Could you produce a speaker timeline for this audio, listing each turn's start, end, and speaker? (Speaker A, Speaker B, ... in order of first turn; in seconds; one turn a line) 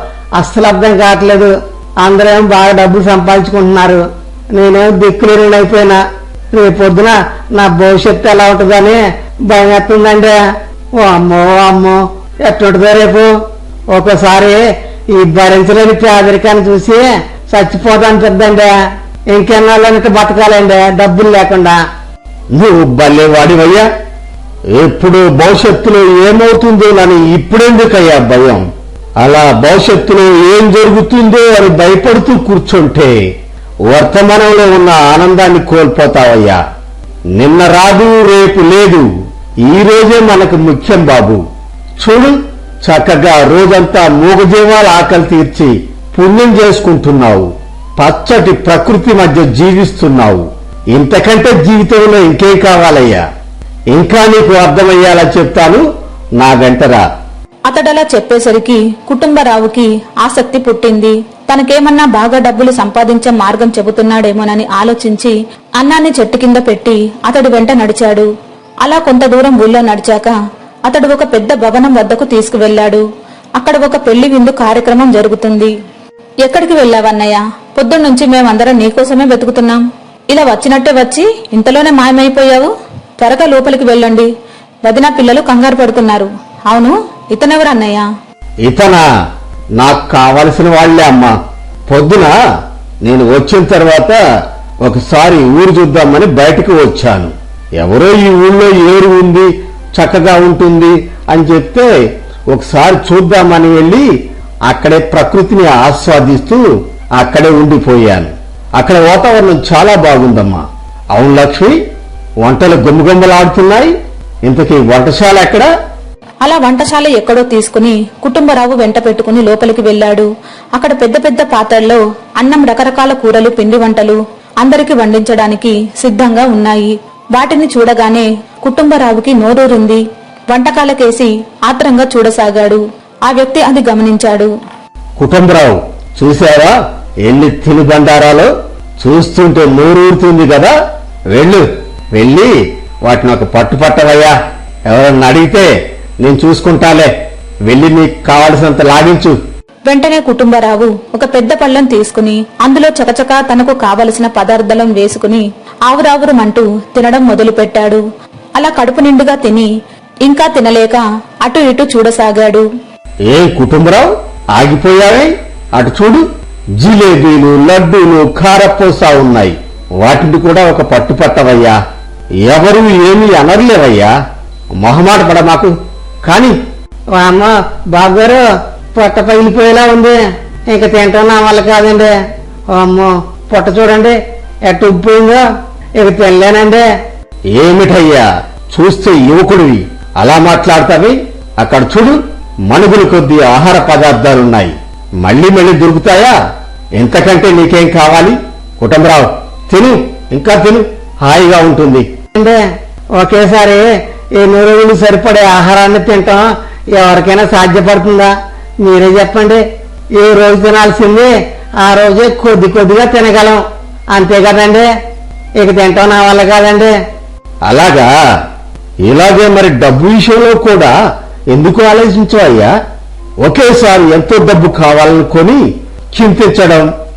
Speaker A: 0.3-4.0
Speaker A: 4.5-6.0
Speaker A: 6.5-10.3
Speaker A: 10.9-13.3
Speaker A: 13.9-18.7
Speaker A: 19.3-21.8
Speaker B: 22.5-23.9
Speaker B: 24.7-28.7
Speaker B: 29.2-33.2
Speaker B: 33.9-36.6
Speaker B: 37.3-39.1
Speaker B: 39.6-41.4
Speaker B: 42.0-53.2
Speaker B: 53.9-55.8
Speaker B: 56.4-57.0
Speaker C: 57.7-68.3
Speaker C: 68.8-70.3
Speaker C: 70.9-73.0
Speaker C: 73.6-75.7
Speaker C: 76.4-82.7
Speaker C: 83.2-84.3
Speaker C: 84.8-88.1
Speaker B: 88.6-89.0
Speaker B: 89.8-91.4
Speaker B: 91.9-92.4
Speaker B: 93.0-94.2
Speaker B: 94.8-101.9
Speaker B: 102.5-104.1
Speaker B: 104.6-111.8
Speaker B: 112.4-115.7
Speaker C: 116.4-134.5
Speaker B: 135.2-140.7
Speaker B: 141.3-144.4
Speaker B: 144.9-147.1
Speaker B: 147.7-149.4
Speaker C: 149.9-158.0
Speaker C: 158.6-159.7
Speaker C: 160.2-162.7
Speaker B: 163.3-166.2
Speaker B: 166.8-171.8
Speaker B: 172.4-174.1
Speaker B: 174.8-175.7
Speaker B: 176.2-176.6
Speaker A: 177.2-178.4
Speaker A: 178.9-180.2
Speaker A: 180.7-182.1
Speaker A: 182.7-185.4
Speaker A: 186.0-186.9
Speaker B: 187.5-196.4
Speaker B: 196.9-202.2
Speaker A: 203.2-209.6
Speaker A: 210.2-214.9
Speaker A: 215.6-216.9
Speaker B: 217.6-218.1
Speaker B: 219.0-220.9
Speaker B: 221.5-222.7
Speaker B: 223.4-226.9